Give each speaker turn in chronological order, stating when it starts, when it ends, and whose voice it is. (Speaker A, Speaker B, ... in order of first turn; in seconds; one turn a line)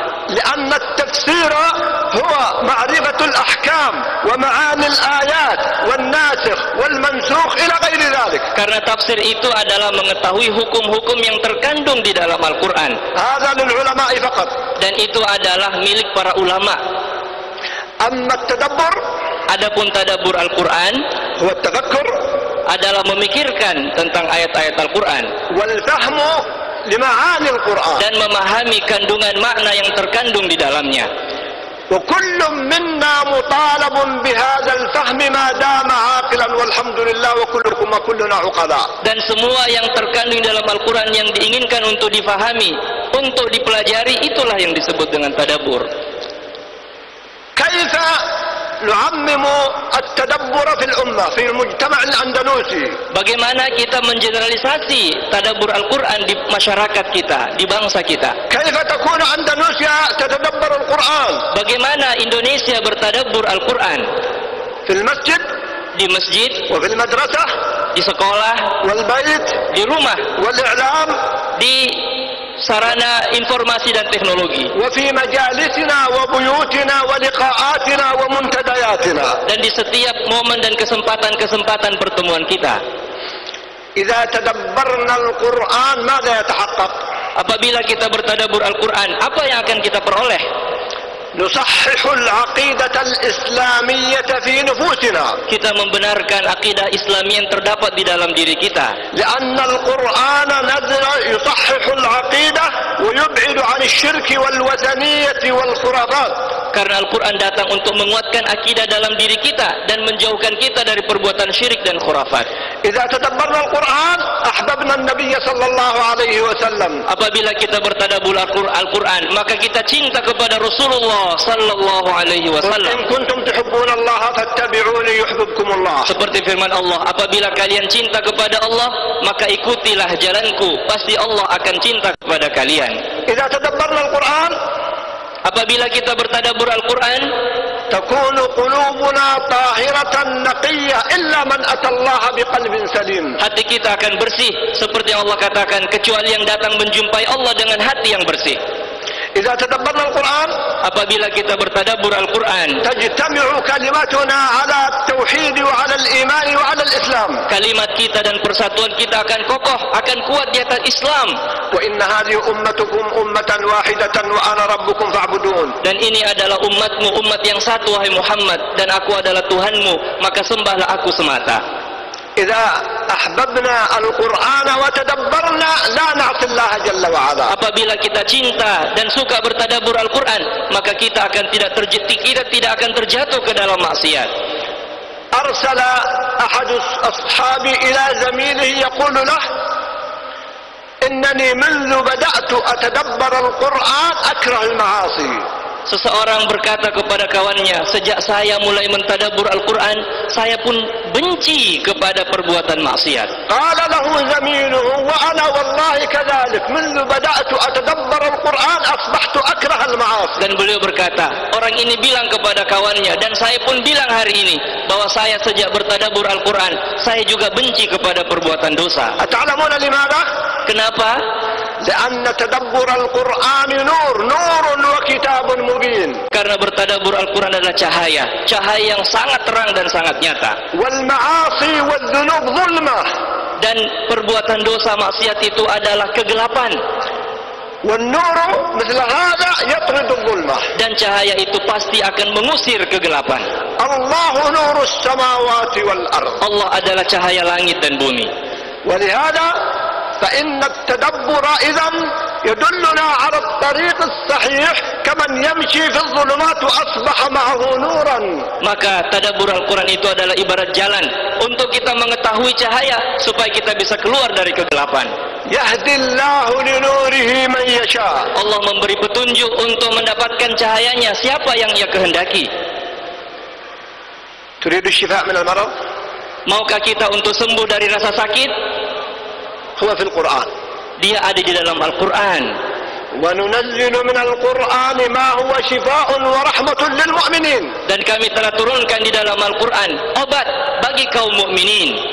Speaker A: 0.3-8.5
Speaker B: 8.5-13.0
Speaker A: 13.1-14.5
Speaker B: 14.8-16.8
Speaker A: 18.0-19.0
Speaker B: 19.5-21.0
Speaker A: 21.4-22.1
Speaker B: 22.7-25.3
Speaker A: 25.5-28.0
Speaker B: 28.0-31.1
Speaker A: 31.9-38.9
Speaker B: 39.0-45.9
Speaker A: 47.5-48.2
Speaker A: 48.8-53.0
Speaker B: 53.1-58.4
Speaker A: 58.5-61.5
Speaker B: 61.5-64.1
Speaker A: 64.9-65.5
Speaker B: 66.0-66.7
Speaker A: 66.7-67.5
Speaker B: 67.9-68.7
Speaker A: 68.8-69.6
Speaker B: 69.7-70.3
Speaker A: 70.3-71.2
Speaker B: 71.6-74.7
Speaker A: 74.7-79.4
Speaker B: 79.5-82.8
Speaker A: 84.0-87.0
Speaker B: 87.3-90.5
Speaker A: 91.3-95.4
Speaker B: 95.5-98.9
Speaker A: 99.1-106.3
Speaker B: 106.7-112.5
Speaker A: 112.8-117.0
Speaker B: 117.1-123.0
Speaker A: 122.6-126.1
Speaker B: 126.1-133.0
Speaker A: 133.3-134.6
Speaker B: 135.4-137.3
Speaker A: 137.9-143.4
Speaker B: 143.4-148.6
Speaker A: 149.3-150.5
Speaker B: 150.8-152.8
Speaker A: 152.8-157.4
Speaker B: 157.5-161.3
Speaker A: 161.7-165.8
Speaker B: 165.8-171.6
Speaker A: 172.4-177.5
Speaker B: 177.5-184.3
Speaker A: 185.3-189.4
Speaker A: 191.0-195.4
Speaker B: 195.9-203.3
Speaker A: 203.5-210.4
Speaker B: 210.4-219.2
Speaker A: 219.2-220.2
Speaker B: 220.7-221.2
Speaker A: 221.8-226.2
Speaker B: 226.3-230.6
Speaker A: 230.7-233.1
Speaker B: 233.6-236.8
Speaker A: 237.8-240.7
Speaker B: 240.8-243.4
Speaker A: 243.8-246.4
Speaker B: 246.4-248.3
Speaker A: 248.8-249.5
Speaker A: 250.2-258.4
Speaker B: 258.6-265.1
Speaker A: 265.5-268.3
Speaker B: 268.4-272.5
Speaker A: 274.6-275.7
Speaker B: 276.5-278.5
Speaker A: 279.8-280.5
Speaker B: 281.0-282.5
Speaker A: 283.2-287.7
Speaker B: 287.9-292.0